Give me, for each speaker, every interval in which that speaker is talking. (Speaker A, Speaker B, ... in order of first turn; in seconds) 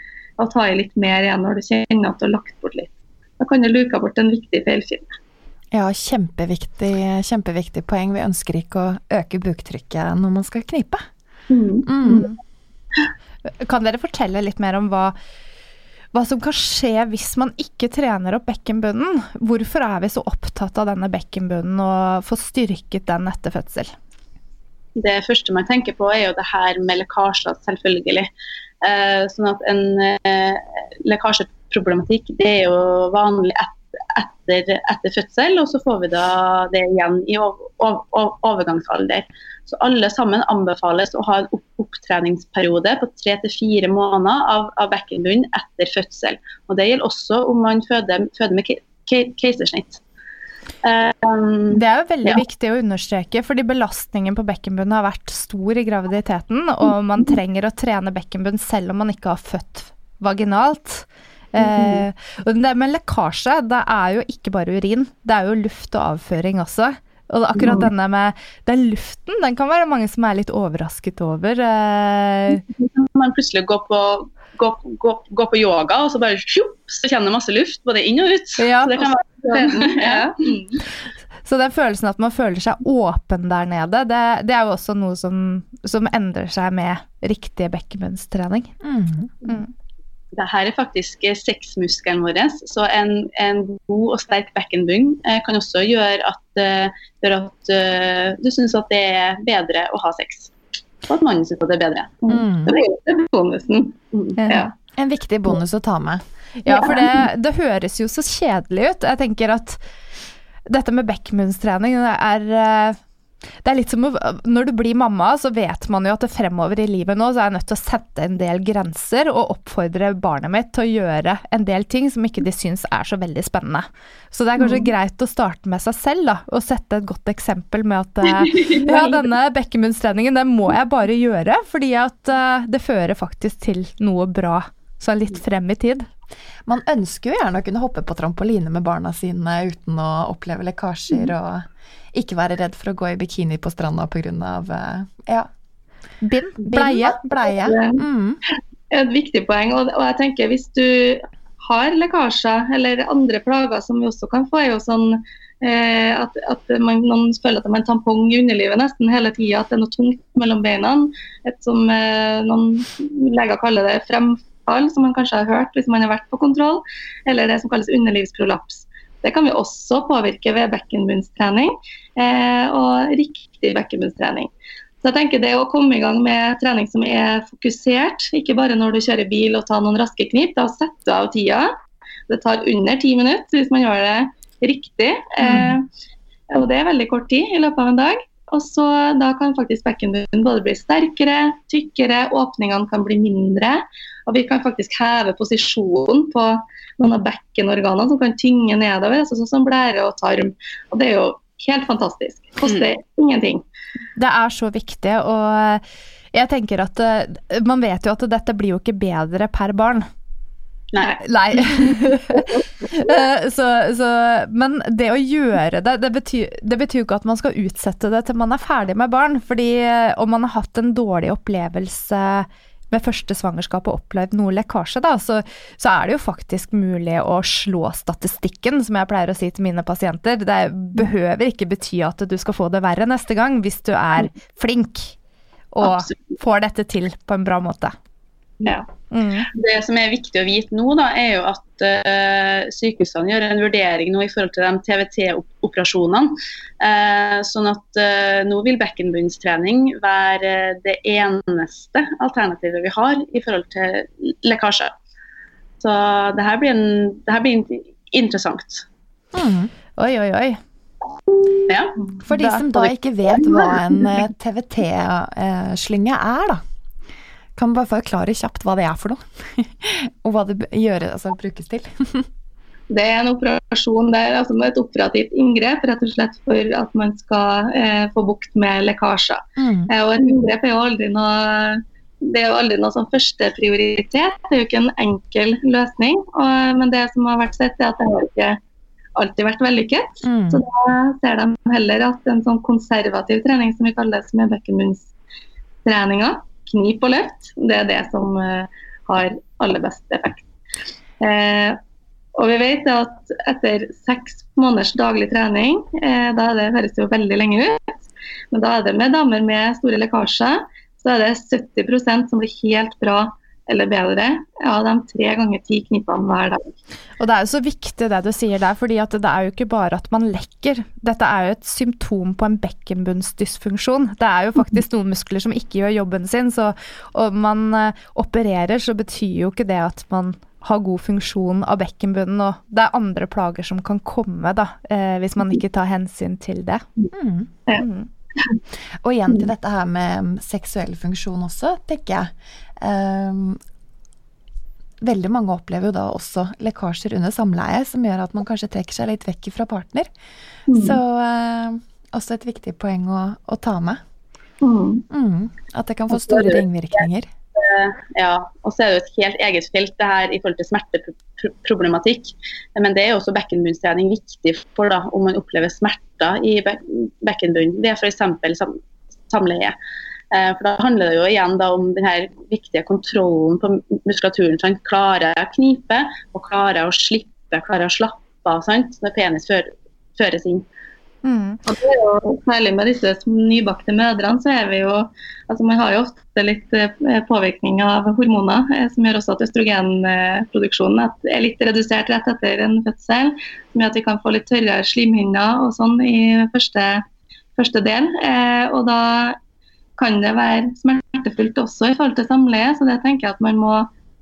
Speaker A: 0.4-5.1, 11.5-12.2, 61.6-62.0, 67.6-67.9, 79.2-80.8, 102.2-104.7, 106.7-107.1, 124.6-124.9, 128.6-128.9, 147.4-148.0, 148.9-174.5, 175.0-181.7, 182.3-185.8, 186.5-203.6, 238.6-238.9, 272.9-288.6, 289.1-295.1, 295.8-300.4, 301.2-301.8, 302.4-316.7, 350.7-351.0, 354.6-355.0, 381.6-397.0, 397.6-399.4, 400.0-403.9
Speaker B: 5.7-11.0, 11.8-12.2, 88.8-89.3, 102.3-102.7, 105.0-106.2, 136.7-145.5, 146.6-148.4, 185.4-185.7, 259.3-259.7, 262.2-266.6, 267.6-272.3, 279.6-279.9, 290.2-290.6, 337.1-337.5, 339.0-343.6, 345.0-350.1, 350.7-354.0, 355.1-357.3
Speaker C: 13.6-15.1, 16.1-23.9, 51.7-72.6, 78.6-79.0, 81.4-88.7, 104.4-104.6, 106.6-109.8, 110.7-113.0, 113.6-136.1, 146.2-147.2, 204.2-205.8, 206.3-210.1, 211.2-235.1, 235.7-237.9, 239.1-239.5, 260.0-260.6, 262.3-262.9, 317.2-336.9, 337.8-338.1, 381.2-381.6
Speaker D: 24.9-28.3, 28.8-50.0, 50.8-52.4, 72.8-80.3, 90.3-100.5, 101.0-102.2, 210.9-211.2, 239.5-254.9, 255.8-258.8, 261.7-261.9, 356.3-356.6, 357.6-368.8, 369.3-369.7, 370.3-380.6